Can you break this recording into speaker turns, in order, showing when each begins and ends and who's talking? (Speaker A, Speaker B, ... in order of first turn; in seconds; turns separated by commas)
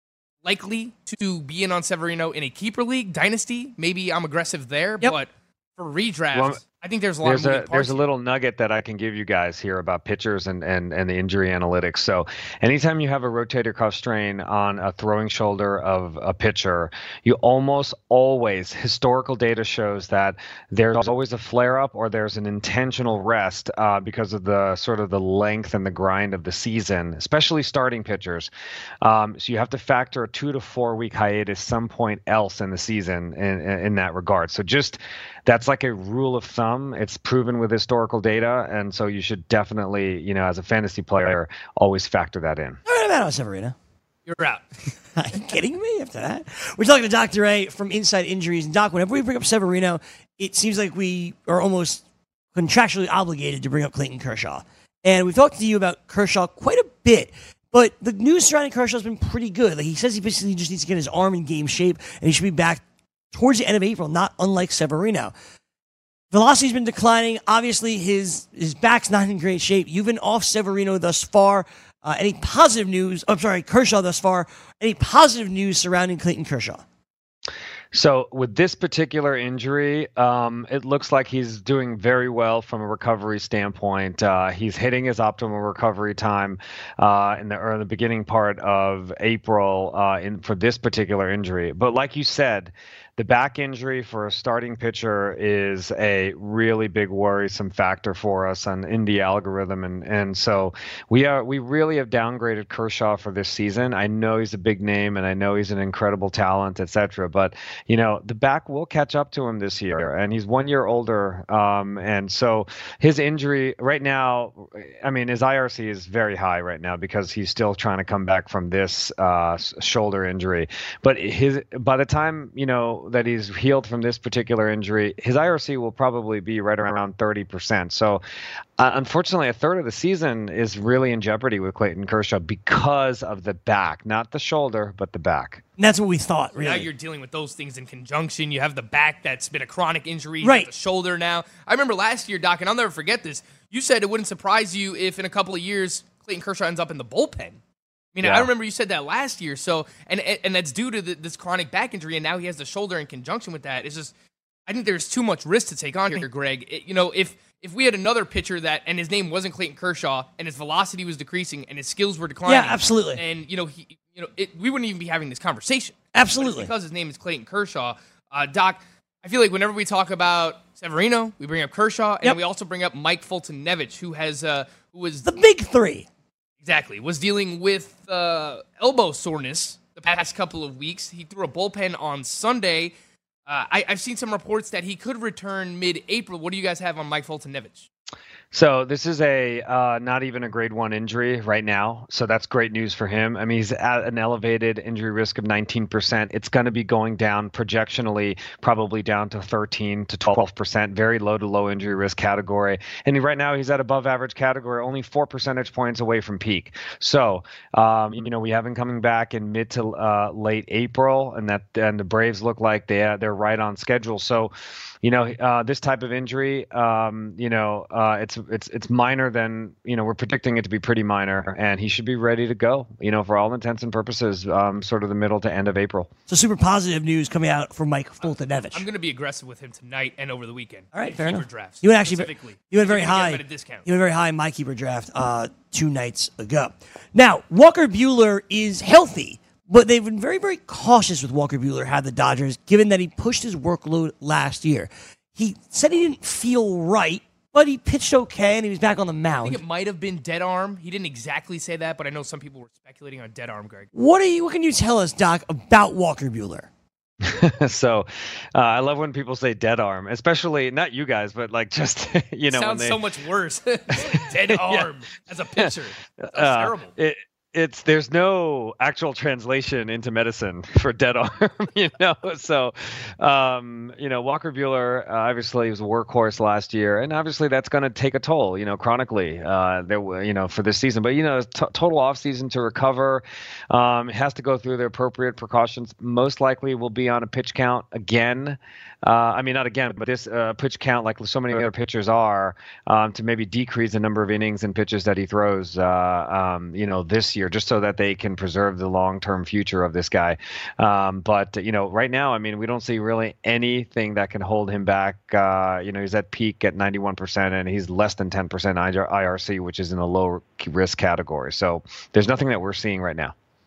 Speaker A: 0.4-8.0, Speaker B: 6.3-6.6, Speaker B: 7.2-28.5, Speaker B: 29.0-42.8, Speaker C: 42.9-43.7, Speaker A: 44.2-44.6, Speaker C: 45.1-52.0, Speaker C: 52.5-62.8, Speaker C: 63.3-65.3, Speaker C: 66.3-76.8, Speaker B: 77.9-128.2, Speaker B: 128.8-135.6, Speaker C: 135.8-136.9, Speaker A: 136.6-147.6, Speaker C: 140.4-140.7, Speaker A: 148.1-154.1, Speaker B: 148.2-148.5, Speaker A: 154.7-175.3, Speaker C: 162.4-163.2, Speaker C: 166.1-166.7, Speaker C: 175.2-176.1, Speaker A: 176.6-182.9, Speaker A: 183.5-187.9, Speaker B: 188.5-214.5, Speaker B: 215.0-226.1, Speaker C: 226.3-228.8, Speaker A: 228.7-233.8, Speaker C: 230.9-249.6, Speaker A: 249.4-253.9, Speaker C: 253.9-256.7, Speaker B: 257.2-263.0, Speaker A: 262.5-266.9, Speaker B: 263.9-264.9, Speaker B: 266.2-313.3